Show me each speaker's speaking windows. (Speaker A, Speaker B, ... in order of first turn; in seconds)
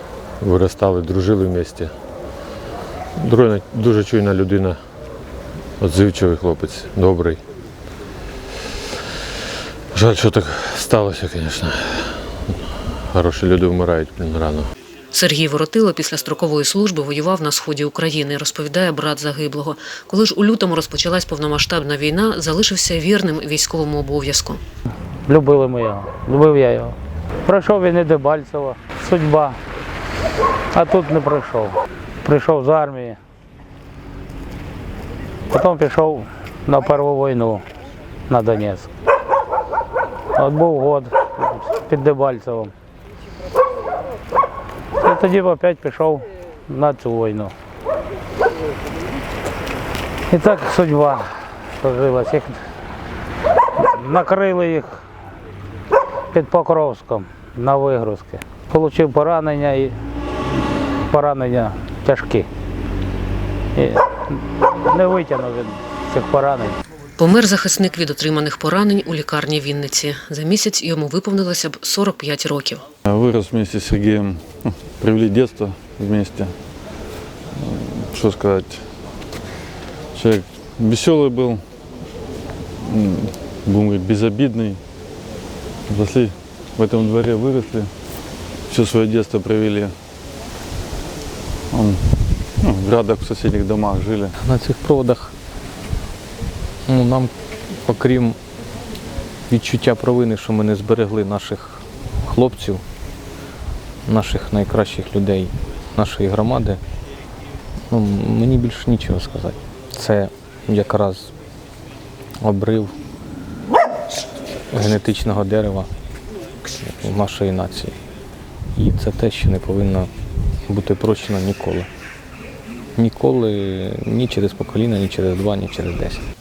Speaker A: 0.4-1.9, 3.2-4.8, 5.8-7.4, 9.9-12.1, 13.1-14.7
Speaker B: 15.1-24.6, 67.2-72.8
Speaker C: 25.2-29.6, 30.7-33.2, 35.5-37.6, 38.3-38.9, 40.4-42.7, 45.0-47.5, 50.3-52.6, 53.8-55.0, 56.3-60.0, 61.1-62.5, 63.7-66.8
Speaker D: 73.0-76.6, 77.5-78.9, 80.1-81.6, 82.8-84.8, 85.9-87.9, 88.7-89.9, 91.7-92.0, 92.6-94.3
Speaker E: 94.4-95.3, 96.9-98.4, 99.5-102.8, 104.0-106.8, 107.9-111.3, 112.4-112.9, 114.7-115.9, 116.8-118.0, 118.7-120.1, 120.7-121.9, 123.0-126.2